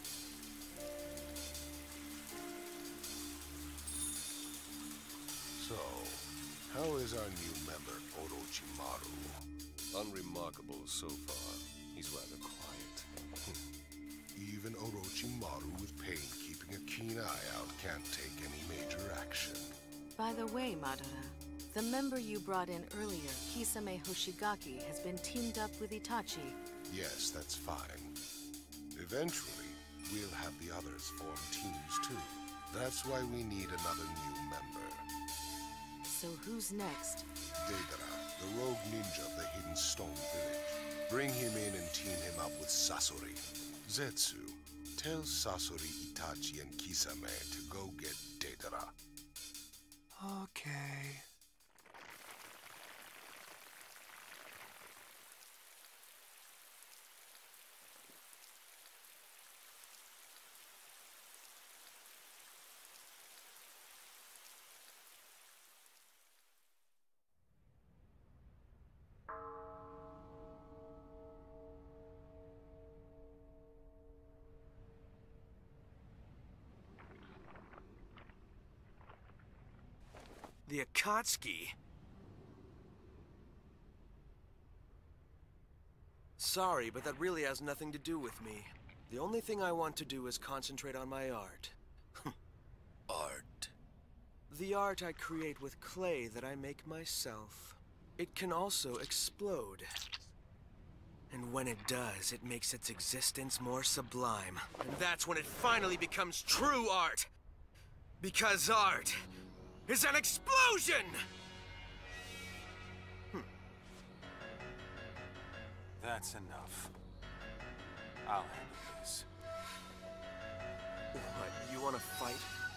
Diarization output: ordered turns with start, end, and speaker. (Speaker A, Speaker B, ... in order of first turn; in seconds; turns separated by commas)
Speaker A: 5.5-9.5, Speaker B: 9.9-13.1, Speaker A: 14.3-19.7, Speaker C: 20.1-26.6, Speaker A: 26.9-28.2, Speaker A: 28.9-35.1, Speaker C: 36.0-37.3, Speaker A: 37.5-48.9, Speaker D: 50.2-51.2, Speaker E: 80.7-81.7, Speaker E: 86.4-92.3, Speaker B: 93.1-93.4, Speaker E: 94.5-99.9, Speaker E: 101.3-107.3, Speaker E: 108.2-109.2, Speaker E: 109.9-111.2, Speaker D: 116.0-116.9, Speaker D: 118.2-119.3, Speaker E: 121.1-122.5